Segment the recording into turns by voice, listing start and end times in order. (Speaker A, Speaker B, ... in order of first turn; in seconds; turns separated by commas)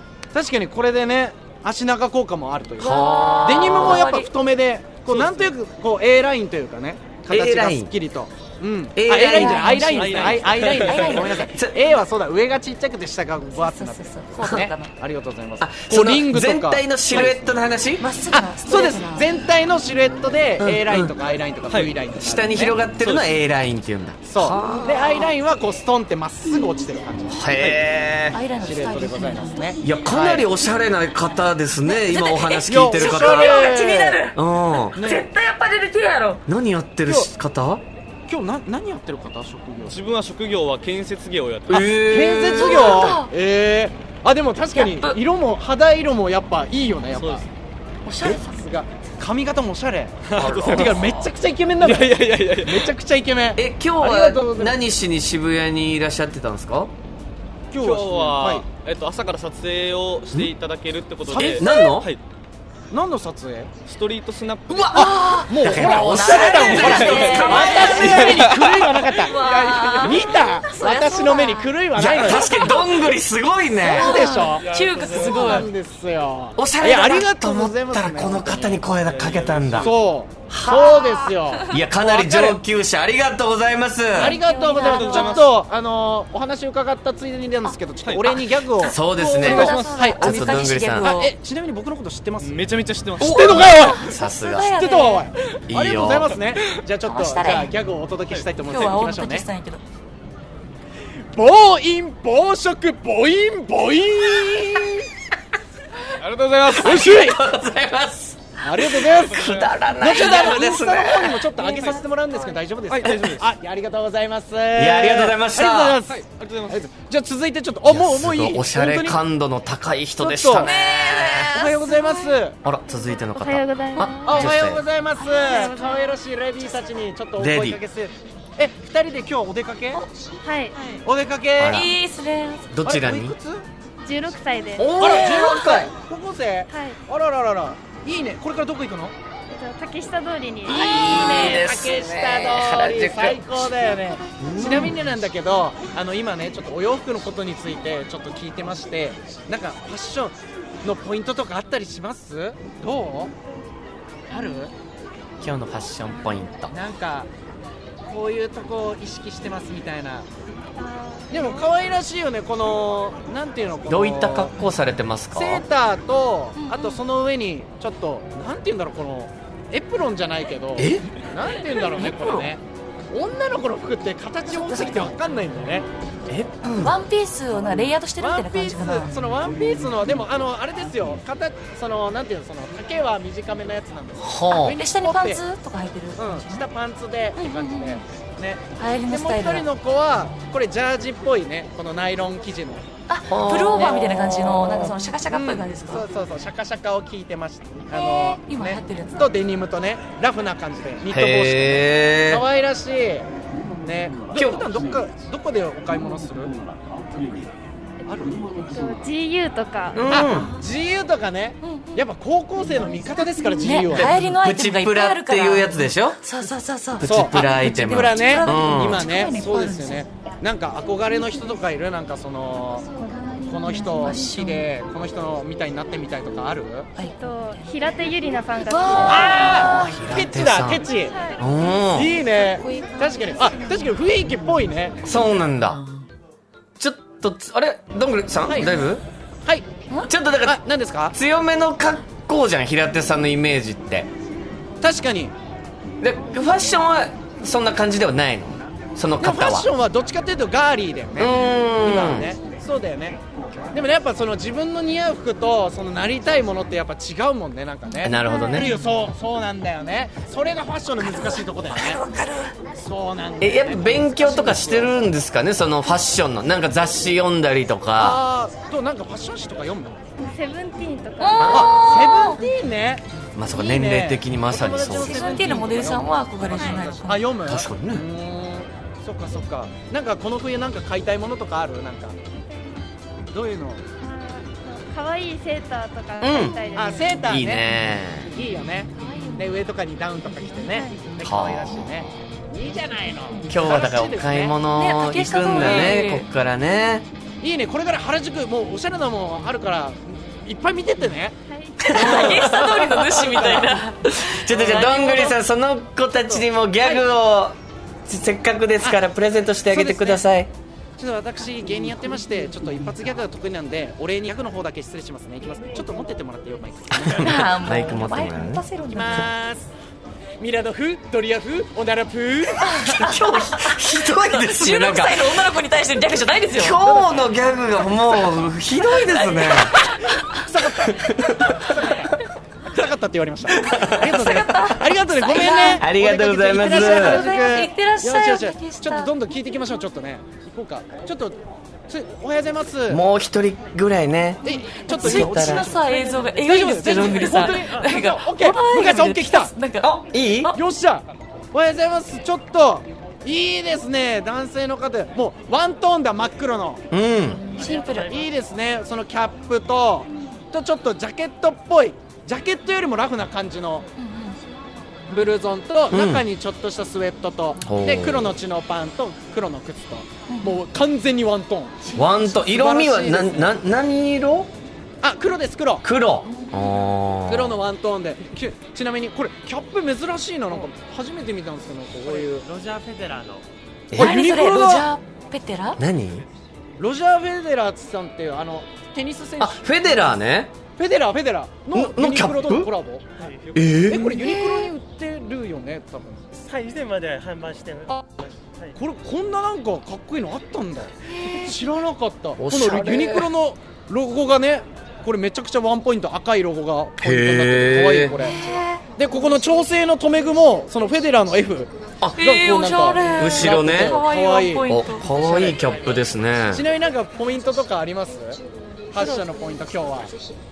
Speaker A: 0.3-17.3, Speaker B: 2.8-4.0, Speaker C: 2.8-4.3, Speaker D: 5.1-5.5, Speaker B: 7.3-7.9, Speaker B: 8.9-9.9, Speaker C: 9.2-11.6, Speaker D: 9.9-11.3, Speaker C: 13.4-14.9, Speaker B: 15.6-18.0, Speaker D: 17.1-17.4, Speaker C: 18.0-19.4, Speaker A: 18.3-22.7, Speaker B: 20.6-21.1, Speaker D: 21.7-21.9, Speaker B: 22.2-25.0, Speaker D: 23.0-23.3, Speaker A: 24.2-27.4, Speaker B: 27.3-28.4, Speaker D: 27.5-27.9, Speaker C: 28.3-30.3, Speaker A: 28.6-30.5, Speaker B: 29.8-33.7, Speaker C: 31.8-34.4, Speaker A: 32.7-34.2, Speaker B: 34.3-35.0, Speaker A: 34.9-35.3, Speaker C: 34.9-36.4, Speaker B: 36.5-37.8, Speaker A: 37.0-37.3, Speaker A: 38.3-40.0, Speaker D: 39.9-42.2, Speaker B: 41.7-43.1, Speaker A: 41.8-47.5, Speaker C: 42.5-43.3, Speaker C: 44.7-45.2, Speaker D: 47.1-47.5, Speaker C: 48.0-48.5, Speaker A: 48.2-54.8, Speaker D: 50.2-51.2, Speaker B: 50.3-51.2, Speaker D: 51.8-52.9, Speaker B: 53.5-56.9, Speaker A: 57.7-58.6, Speaker D: 57.7-62.2, Speaker A: 61.2-61.9, Speaker B: 61.4-62.1, Speaker A: 62.9-63.7, Speaker D: 63.9-65.1, Speaker A: 64.9-72.5, Speaker C: 65.0-68.3, Speaker B: 65.6-68.5, Speaker D: 66.6-70.3, Speaker C: 69.2-73.0, Speaker B: 72.0-74.2, Speaker A: 73.8-78.8, Speaker C: 73.9-75.7, Speaker D: 74.4-75.7, Speaker B: 76.6-79.9, Speaker D: 79.0-79.9, Speaker A: 79.8-82.6, Speaker C: 80.6-81.8, Speaker B: 81.7-84.4, Speaker A: 84.1-94.0, Speaker C: 84.2-85.5, Speaker D: 84.8-85.5, Speaker D: 88.0-88.7, Speaker B: 88.8-91.1, Speaker C: 88.8-91.3, Speaker D: 89.5-89.9, Speaker D: 92.4-93.9, Speaker C: 93.2-95.3, Speaker B: 93.9-94.7, Speaker A: 94.7-99.5, Speaker B: 95.7-96.4, Speaker C: 97.0-97.7, Speaker C: 98.7-99.8, Speaker A: 101.3-105.1, Speaker D: 106.2-107.0, Speaker B: 106.7-111.4, Speaker A: 106.8-107.4, Speaker A: 108.6-119.2, Speaker D: 109.1-110.1, Speaker C: 111.5-112.0, Speaker D: 112.9-113.5, Speaker B: 114.8-116.0, Speaker D: 116.1-116.9, Speaker B: 117.8-121.5, Speaker A: 120.2-120.7, Speaker C: 120.6-122.3, Speaker A: 121.5-122.6, Speaker B: 122.6-124.8, Speaker E: 123.3-124.5, Speaker A: 124.2-130.0, Speaker C: 125.2-125.5, Speaker E: 125.3-126.1, Speaker B: 127.4-127.8, Speaker E: 130.4-131.0, Speaker A: 131.0-131.9, Speaker B: 131.6-131.9, Speaker C: 131.7-132.7, Speaker B: 132.7-133.3, Speaker A: 132.8-133.7, Speaker E: 134.0-135.6, Speaker B: 134.8-135.9, Speaker A: 135.0-139.1, Speaker E: 136.7-137.0, Speaker E: 139.5-141.6, Speaker B: 140.7-143.6, Speaker A: 140.7-153.3, Speaker B: 144.4-145.0, Speaker A: 154.3-154.7, Speaker B: 155.4-156.7, Speaker A: 156.7-157.3, Speaker A: 158.0-160.3, Speaker E: 160.8-161.7, Speaker A: 161.3-164.5, Speaker B: 163.9-165.6, Speaker A: 165.3-175.9, Speaker C: 166.6-167.0, Speaker B: 170.8-171.1, Speaker C: 171.9-172.5, Speaker C: 174.5-175.1, Speaker B: 176.5-176.9, Speaker C: 176.7-179.3, Speaker A: 178.2-185.4, Speaker B: 184.2-184.8, Speaker C: 184.6-186.6, Speaker A: 186.2-192.8, Speaker C: 187.4-188.0, Speaker C: 188.8-189.7, Speaker C: 193.1-196.0, Speaker B: 193.3-194.4, Speaker A: 195.3-203.2, Speaker C: 197.9-199.3, Speaker B: 201.1-202.4, Speaker A: 203.8-206.6, Speaker B: 204.3-204.7, Speaker A: 208.0-208.4, Speaker E: 208.7-210.2, Speaker B: 209.9-210.5, Speaker A: 210.1-214.2, Speaker C: 211.6-212.0, Speaker C: 213.6-220.1, Speaker B: 213.9-216.2, Speaker B: 217.0-219.0, Speaker A: 217.0-222.9, Speaker C: 222.9-224.7, Speaker A: 223.4-226.9, Speaker C: 226.9-227.7, Speaker E: 227.0-229.3, Speaker C: 228.7-230.0, Speaker A: 228.8-231.2, Speaker B: 229.7-230.8, Speaker E: 230.8-231.4, Speaker B: 231.4-232.1, Speaker A: 231.9-235.0, Speaker C: 232.0-234.2, Speaker B: 235.0-235.8, Speaker C: 235.7-236.1, Speaker B: 236.8-239.0, Speaker A: 238.4-238.8, Speaker B: 240.1-240.6, Speaker A: 240.4-241.2, Speaker B: 241.1-244.1, Speaker A: 244.8-245.3, Speaker B: 246.0-249.7, Speaker A: 249.2-253.2, Speaker B: 251.2-252.3, Speaker A: 253.7-262.0, Speaker B: 258.0-258.7, Speaker C: 258.3-258.8, Speaker C: 261.0-262.5, Speaker A: 262.8-264.9, Speaker B: 263.4-268.2, Speaker A: 268.0-270.0, Speaker E: 270.2-271.9, Speaker C: 271.2-272.4, Speaker B: 271.4-271.7, Speaker A: 271.5-282.2, Speaker B: 273.4-275.6, Speaker C: 274.9-277.3, Speaker E: 276.6-276.9, Speaker B: 277.5-278.0, Speaker A: 283.3-283.8, Speaker E: 284.0-287.3, Speaker B: 286.2-286.6, Speaker A: 286.7-287.6, Speaker B: 287.2-288.3, Speaker A: 288.3-294.6, Speaker C: 288.9-289.6, Speaker E: 290.5-291.0, Speaker B: 291.2-292.0, Speaker B: 293.5-297.0, Speaker C: 294.7-296.2, Speaker A: 295.5-296.0, Speaker A: 297.4-301.4, Speaker E: 301.5-302.3, Speaker C: 301.8-305.4, Speaker B: 301.9-310.5, Speaker A: 301.9-302.5, Speaker A: 304.5-304.8, Speaker A: 309.7-310.2, Speaker A: 311.0-317.7, Speaker C: 317.2-319.3, Speaker B: 317.2-318.6, Speaker A: 318.9-319.7, Speaker A: 320.4-322.8, Speaker C: 322.6-326.8, Speaker B: 322.8-325.5, Speaker B: 326.5-329.7, Speaker A: 326.8-327.4, Speaker C: 328.9-330.4, Speaker A: 330.2-343.0, Speaker B: 333.5-334.1, Speaker C: 333.9-335.9, Speaker B: 335.8-337.2, Speaker C: 336.6-339.1, Speaker B: 342.9-344.4, Speaker A: 344.4-349.5, Speaker C: 344.4-350.6, Speaker B: 344.9-345.7, Speaker F: 346.9-347.9, Speaker B: 349.8-350.5, Speaker A: 350.5-356.8, Speaker B: 356.9-357.4, Speaker C: 357.3-358.1, Speaker F: 357.5-358.3, Speaker A: 358.1-363.9, Speaker C: 364.0-364.4, Speaker A: 365.1-371.8, Speaker B: 365.9-366.2, Speaker B: 367.6-368.3, Speaker C: 370.3-370.6, Speaker C: 371.8-372.2, Speaker B: 371.9-374.5, Speaker A: 372.4-373.5, Speaker A: 375.0-375.9, Speaker B: 375.8-377.6, Speaker A: 377.3-382.4, Speaker F: 382.0-383.4, Speaker A: 383.9-384.9, Speaker C: 384.0-385.8, Speaker B: 385.8-386.2, Speaker A: 386.8-390.2, Speaker B: 389.4-390.5, Speaker A: 390.8-393.0, Speaker B: 391.7-392.7, Speaker F: 393.2-393.7, Speaker B: 393.5-394.2, Speaker A: 393.8-396.4, Speaker C: 394.1-394.7, Speaker F: 396.4-398.8, Speaker A: 398.7-408.4, Speaker B: 402.4-403.3, Speaker B: 407.0-408.1, Speaker C: 408.2-408.8, Speaker A: 408.9-415.7, Speaker C: 412.2-415.1, Speaker B: 413.1-414.0, Speaker B: 414.7-416.6, Speaker F: 415.5-416.1, Speaker A: 416.4-418.4, Speaker A: 418.9-420.1, Speaker C: 419.0-419.2